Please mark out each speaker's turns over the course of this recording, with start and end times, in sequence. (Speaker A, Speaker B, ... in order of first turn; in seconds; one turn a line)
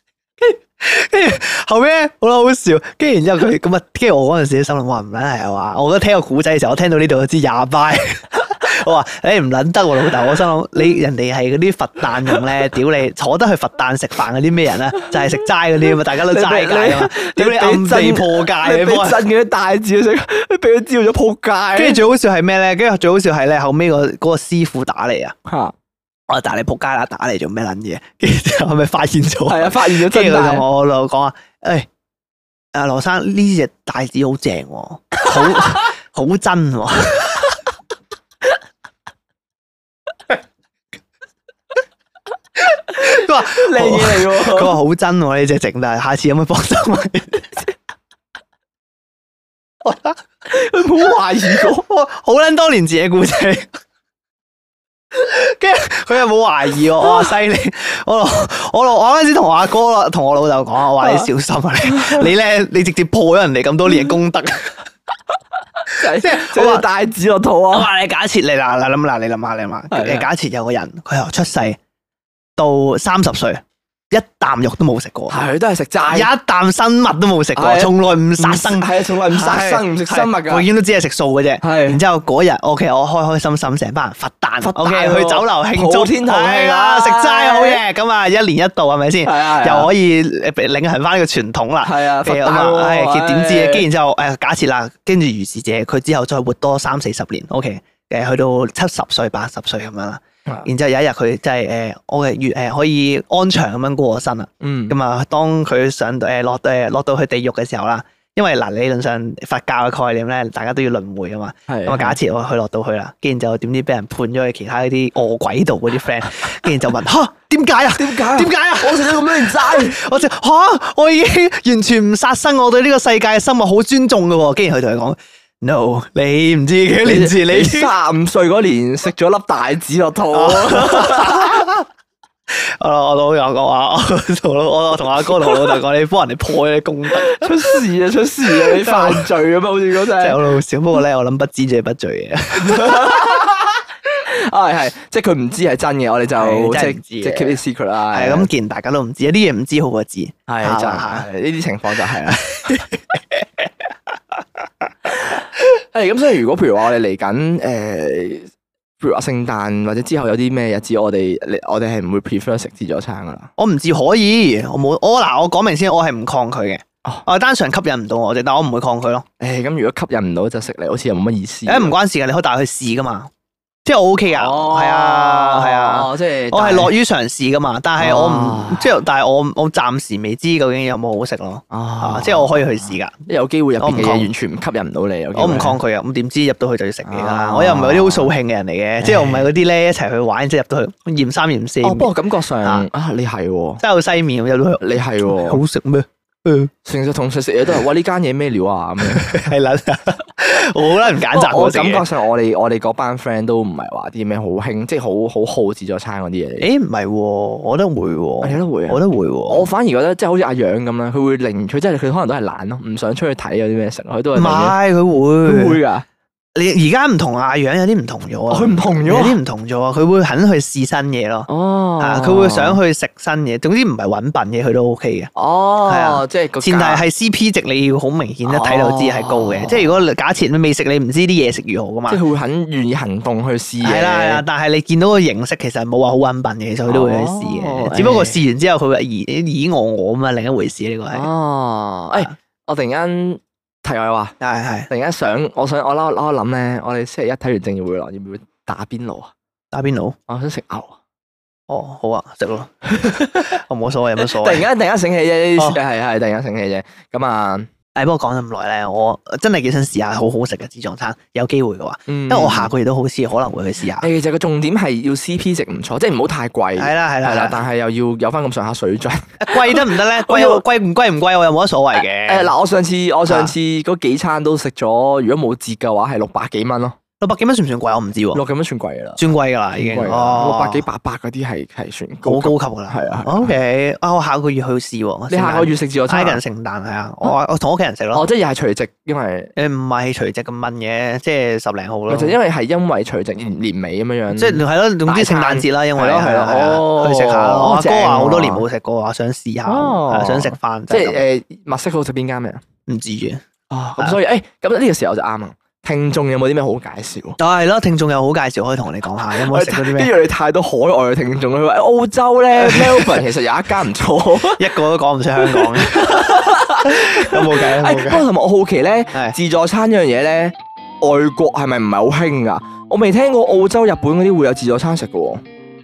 Speaker A: 0.4-19.2
Speaker B: 15.9-22.0
Speaker A: 21.7-25.4
Speaker B: 25.4-25.7
Speaker A: 26.3-31.9
Speaker B: 29.5-30.6
Speaker A: 32.7-37.5
Speaker B: 35.3-35.8
Speaker A: 42.6-47.5
Speaker B: 43.0-44.8
Speaker A: 49.8-50.2
Speaker B: 50.5-51.9
Speaker A: 51.6-53.7
Speaker A: 55.1-64.8
Speaker B: 61.0-61.3
Speaker B: 61.8-62.3
Speaker B: 65.8-67.9
Speaker A: 65.9-66.9
Speaker A: 67.7-71.8
Speaker B: 69.9-70.3
Speaker A: 72.6-75.4
Speaker B: 75.3-76.3
Speaker A: 76.1-127.9
Speaker B: 77.5-80.7
Speaker B: 81.6-82.0
Speaker B: 84.6-87.8
Speaker B: 89.2-89.9
Speaker B: 91.8-93.9
Speaker B: 104.6-104.9
Speaker B: 111.7-112.2
Speaker B: 118.0-120.0
Speaker B: 127.0-131.7
Speaker A: 130.3-131.9
Speaker A: 132.5-137.8
Speaker B: 135.4-135.8
Speaker B: 137.1-140.4
Speaker A: 138.5-139.3
Speaker A: 140.1-143.4
Speaker B: 142.6-148.5
Speaker A: 146.4-147.6
Speaker A: 148.1-151.3
Speaker B: 150.5-152.9
Speaker A: 152.3-153.4
Speaker B: 155.2-163.5
Speaker A: 163.6-169.2
Speaker B: 169.4-171.9
Speaker A: 171.7-173.3
Speaker A: 173.8-183.2
Speaker B: 174.3-176.9
Speaker B: 178.0-179.0
Speaker B: 181.7-185.8
Speaker A: 183.8-184.3
Speaker A: 185.3-192.1
Speaker B: 187.0-188.3
Speaker B: 189.0-189.5
Speaker B: 191.8-193.8
Speaker A: 193.8-196.7
Speaker B: 194.8-195.6
Speaker B: 196.8-199.5
Speaker A: 199.1-202.0
Speaker B: 200.8-206.7
Speaker A: 206.6-209.7
Speaker B: 208.4-214.8
Speaker A: 214.3-215.8
Speaker B: 215.4-216.0
Speaker A: 216.5-221.5
Speaker B: 218.5-219.4
Speaker B: 221.5-222.8
Speaker A: 222.0-225.3
Speaker B: 225.3-227.0
Speaker A: 225.8-232.2
Speaker B: 228.4-230.0
Speaker B: 232.1-234.4
Speaker A: 233.8-241.3
Speaker B: 236.9-238.4
Speaker B: 241.1-244.3
Speaker A: 244.4-244.9
Speaker B: 244.9-249.3
Speaker A: 249.7-250.2
Speaker B: 250.3-250.9
Speaker A: 251.7-254.7
Speaker B: 252.9-253.6
Speaker B: 254.2-257.7
Speaker A: 257.9-264.1
Speaker B: 262.1-262.7
Speaker B: 264.0-270.6
Speaker A: 266.8-267.6
Speaker A: 269.4-272.5
Speaker B: 272.2-277.0
Speaker A: 273.3-273.5
Speaker A: 277.2-278.4
Speaker B: 278.3-279.2
Speaker A: 279.1-280.8
Speaker B: 279.8-283.5
Speaker A: 282.2-288.2
Speaker B: 285.3-286.4
Speaker B: 288.1-289.5
Speaker A: 289.6-292.4
Speaker B: 292.1-298.6
Speaker A: 294.3-301.2
Speaker B: 299.6-302.6
Speaker A: 302.9-303.4
Speaker B: 303.7-307.4
Speaker A: 307.4-310.1
Speaker B: 309.3-314.7
Speaker A: 312.6-313.2
Speaker A: 314.6-318.2
Speaker B: 315.4-325.4